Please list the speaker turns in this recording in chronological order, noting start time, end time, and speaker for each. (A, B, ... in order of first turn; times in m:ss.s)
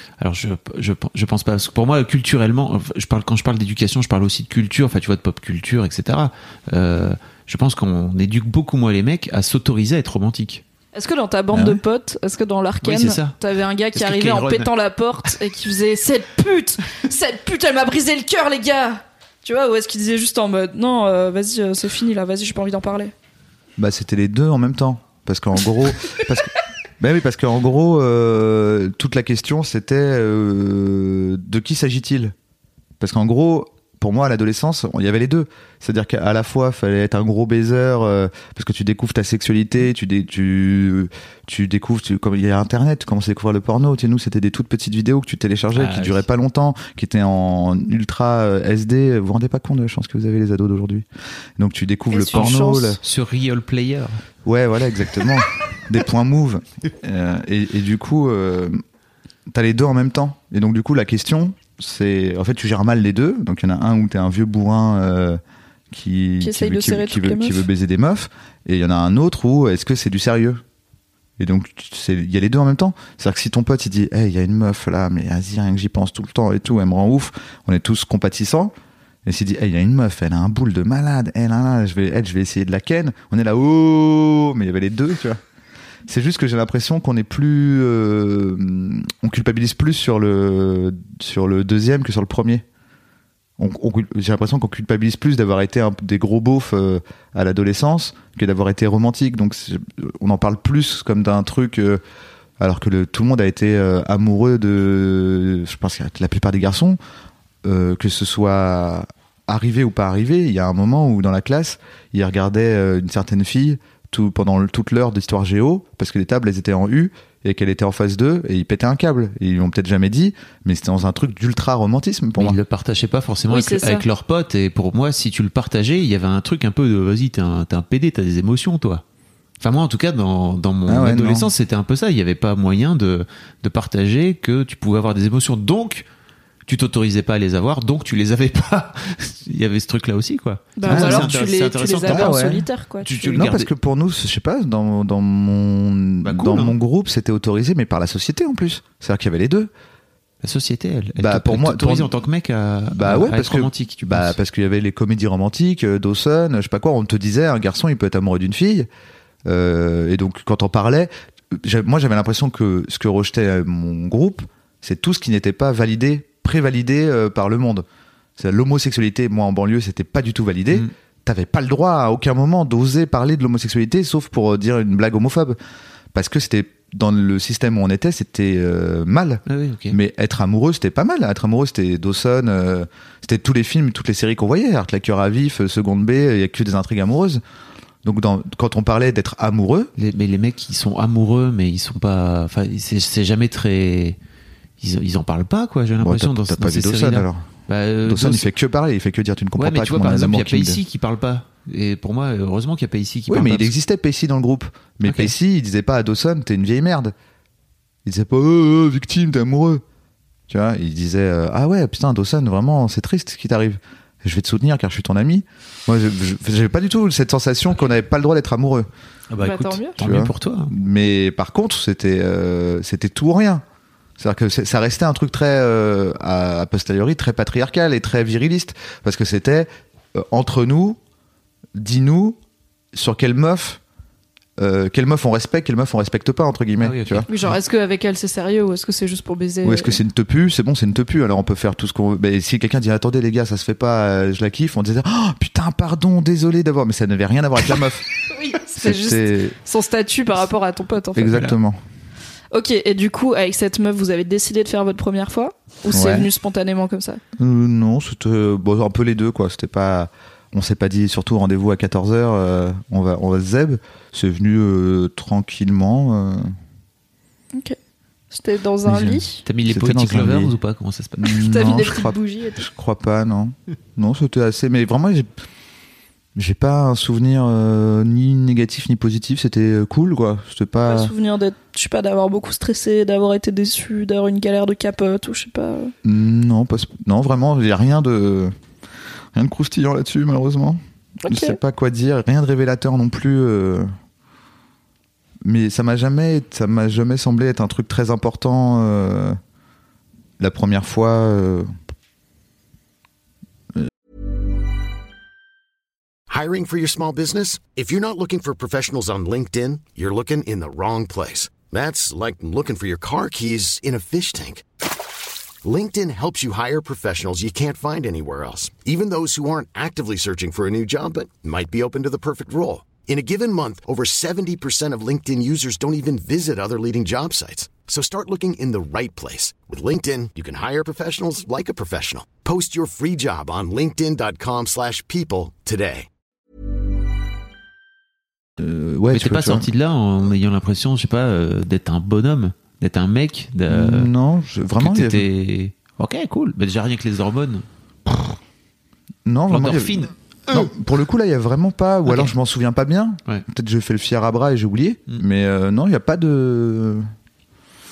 0:00.2-0:10.6 A
0:11.0-0:23.1 B
0:11.5-0:11.8 C
0:12.8-0:13.4 A
0:13.9-0:14.7 A
0:23.8-0:32.4 C
0:33.0-0:51.1 C
0:45.7-0:46.3 A
0:51.6-0:53.0 C
0:52.1-0:53.0 B
0:52.3-0:54.2 A
0:54.4-0:58.8 C
0:59.5-1:05.4 C
1:05.9-1:10.6 C
1:06.4-1:07.7 B
1:11.4-1:18.7 C
1:19.2-1:25.4 C
1:26.1-1:32.6 C
1:33.6-1:42.0 C
1:42.6-1:47.0 C
1:47.6-2:02.6 C
2:02.4-2:09.0 A
2:03.5-2:04.0 B
2:09.6-2:16.1 A
2:10.9-2:11.5 C
2:16.7-2:22.4 A
2:20.8-2:23.5 B
2:20.9-2:21.3 C
2:22.0-2:22.7 C
2:23.0-2:23.7 A
2:23.4-2:29.7 C
2:26.2-2:26.8 A
2:30.4-2:34.4 A
2:31.2-2:32.1 C
2:32.9-2:38.9 C
2:39.5-2:47.8 C
2:48.4-2:55.6 C
2:56.1-3:07.4 C
2:59.5-3:00.0 A
3:08.0-3:09.9 C
3:10.0-3:14.2 A
3:14.8-3:18.5 A
3:16.0-3:17.5 C
3:18.0-3:20.8 C
3:19.6-3:23.7 A
3:23.3-3:27.1 C
3:25.1-3:25.3 A
3:28.0-3:29.8 C
3:30.5-3:38.9 C
3:39.3-3:40.7 A
3:39.4-3:40.0 B
3:40.0-3:43.6 C
3:44.2-3:51.0 C
3:51.7-3:52.4 C
3:52.9-3:53.8 C
3:54.6-3:57.3 C
3:56.8-3:57.5 A
3:57.3-4:00.0 B
3:59.6-4:08.1 C
4:08.3-4:11.4 B
4:08.8-4:09.6 C
4:11.1-4:11.8 C
4:12.5-4:17.2 B
4:15.9-4:16.3 C
4:17.4-4:26.6 C
4:28.3-4:29.4 B
4:28.8-4:30.6 C
4:29.4-4:31.4 A
4:31.2-4:35.3 C
4:31.3-4:32.6 B
4:36.4-4:41.1 C
4:40.8-4:45.9 B
4:46.0-4:48.5 C
4:49.3-4:53.9 C
4:51.2-4:51.6 B
4:55.4-4:59.4 C
5:00.4-5:01.7 C
5:06.3-5:14.6 D
5:15.6-5:36.1 D
5:38.6-5:39.7 C
5:39.1-5:44.1 A
5:43.7-5:45.2 C
5:44.8-5:47.7 A
5:49.2-5:57.1 C
5:49.5-5:50.7 A
5:52.0-5:52.3 A